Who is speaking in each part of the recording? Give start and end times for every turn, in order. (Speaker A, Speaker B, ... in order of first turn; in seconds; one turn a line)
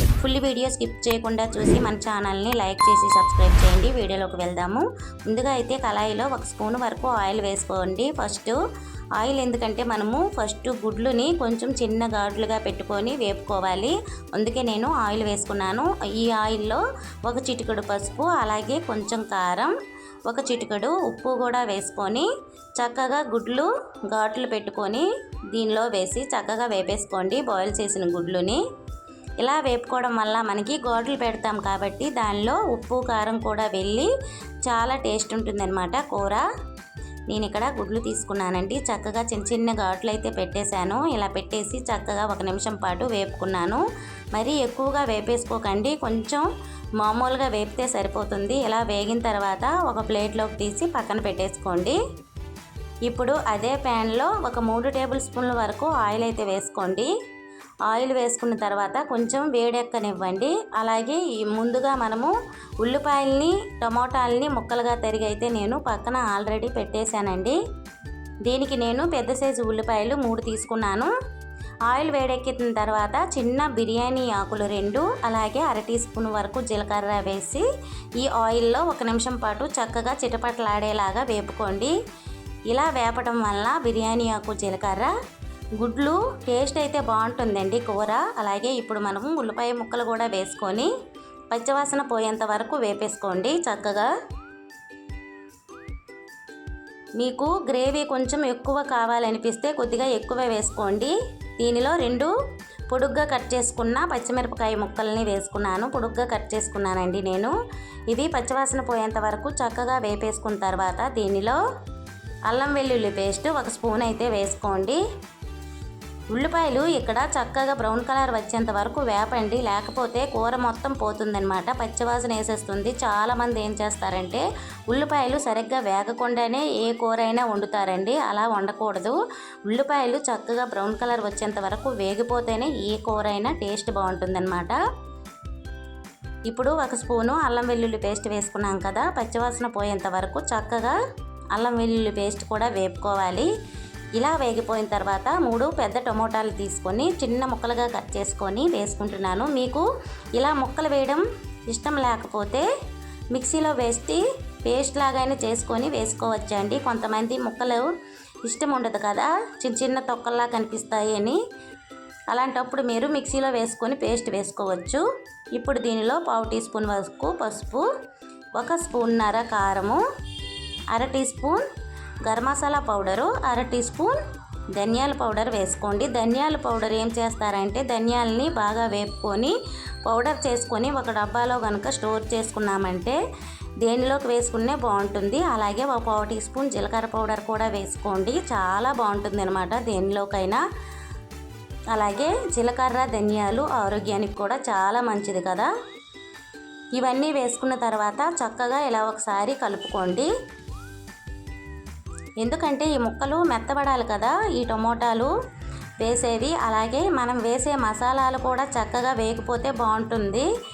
Speaker A: 0.2-8.6
Speaker A: 9.2-19.7
Speaker A: 20.2-28.6
Speaker A: 29.4-34.1
Speaker A: 34.6-36.5
Speaker A: 37.3-43.8
Speaker A: 44.3-46.5
Speaker A: 47.0-52.0
Speaker A: 53.1-57.1
Speaker A: 57.9-67.6
Speaker A: 68.5-71.1
Speaker A: 71.9-77.7
Speaker A: 78.2-81.9
Speaker A: 82.7-85.1
Speaker A: 85.8-90.9
Speaker A: 91.5-94.1
Speaker A: 97.2-102.3
Speaker A: 102.9-107.5
Speaker A: 108.1-111.6
Speaker A: 112.5-115.0
Speaker A: 116.3-134.8
Speaker A: 136.5-141.0
Speaker A: 141.5-143.5
Speaker A: 144.2-152.7
Speaker A: 153.3-157.9
Speaker A: 158.4-161.4
Speaker A: 162.3-165.0
Speaker A: 165.5-167.9
Speaker A: 168.6-170.0
Speaker A: 170.9-171.6
Speaker A: 172.2-174.2
Speaker A: 174.8-183.2
Speaker A: 183.8-190.6
Speaker A: 191.9-195.7
Speaker A: 196.9-200.3
Speaker A: 202.4-205.3
Speaker A: 206.0-210.5